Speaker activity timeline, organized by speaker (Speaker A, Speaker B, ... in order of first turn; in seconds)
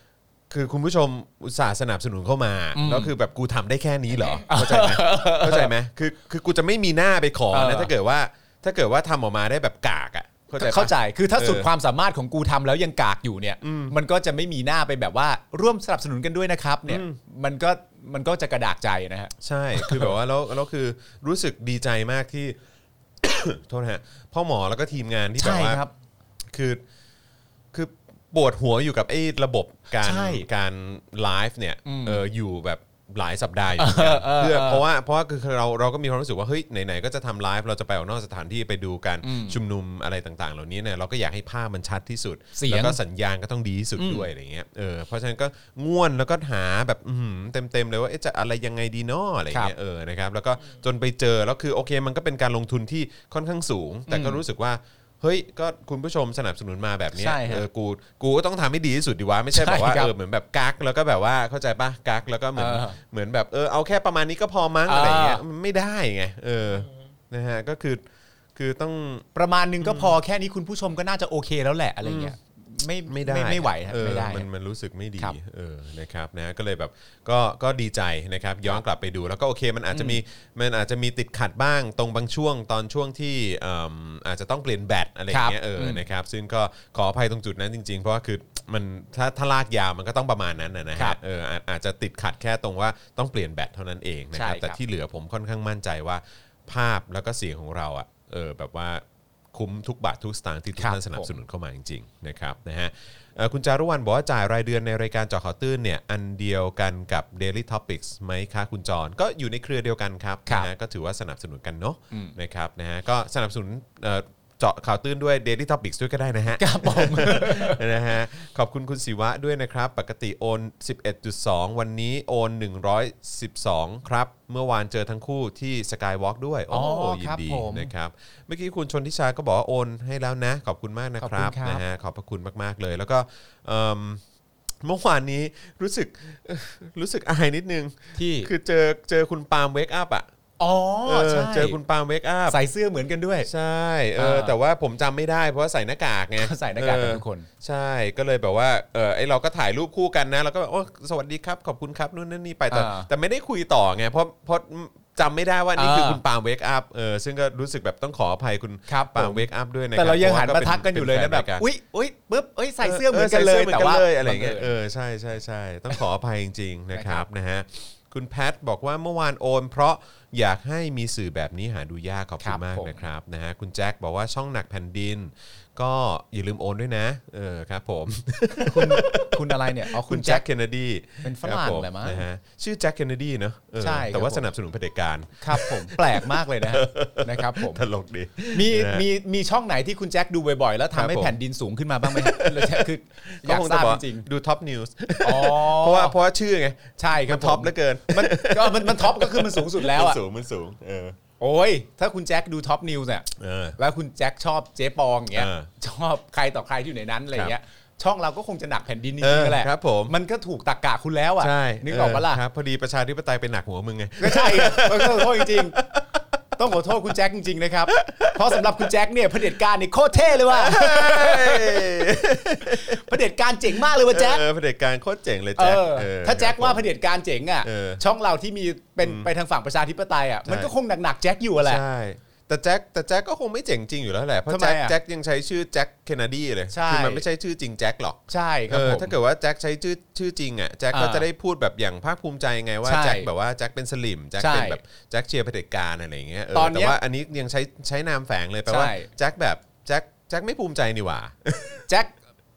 Speaker A: 0.5-11.7, 13.6-13.9, 16.9-17.2, 19.4-22.6, 23.2-25.8, 26.5-26.8, 27.7-68.0, 68.5-69.3, 69.8-70.2, 72.0-72.4, 73.1-134.2, 134.8-140.3, 141.1-142.6, 143.4-161.7, 162.8-189.1, 190.9-191.4, 192.0-201.2, 203.4-203.8, 205.3-205.7, 209.2-210.2, 211.4-216.2, 217.9-218.8, 220.2-223.1, 223.8-226.9, 227.6-228.0, 229.0-229.3, 230.4-230.7, 231.6-251.9
Speaker B: 2.7-3.1, 4.5-5.7, 7.5-7.9, 10.6-20.1, 25.4-25.9, 30.0-30.4, 31.9-32.2, 33.8-34.9, 39.2-39.6, 42.5-43.0, 44.0-44.3, 54.1-54.4, 57.1-57.7, 59.5-60.1, 62.6-63.0, 64.9-65.4, 69.3-74.5, 79.9-80.2, 85.3-86.0, 94.3-94.8, 100.8-101.4, 116.6-117.8, 126.7-127.9, 131.2-131.8, 138.2-138.5, 140.6-141.8, 142.5-143.5, 144.2-144.6, 146.4-147.5, 152.7-153.1, 155.8-156.2, 158.9-164.7, 166.9-167.3, 172.4-173.0, 178.6-180.4, 181.2-182.2, 183.8-184.5, 185.4-187.8, 188.5-194.3, 195.2-196.2, 197.0-200.2, 201.4-212.4, 214.2-215.8, 216.6-222.0, 222.7-224.4, 225.6-231.8, 234.5-234.9, 236.7-237.2, 238.3-239.1, 240.9-241.3, 242.8-243.3, 244.4-244.8, 246.5-247.0, 248.7-249.1, 251.9-252.2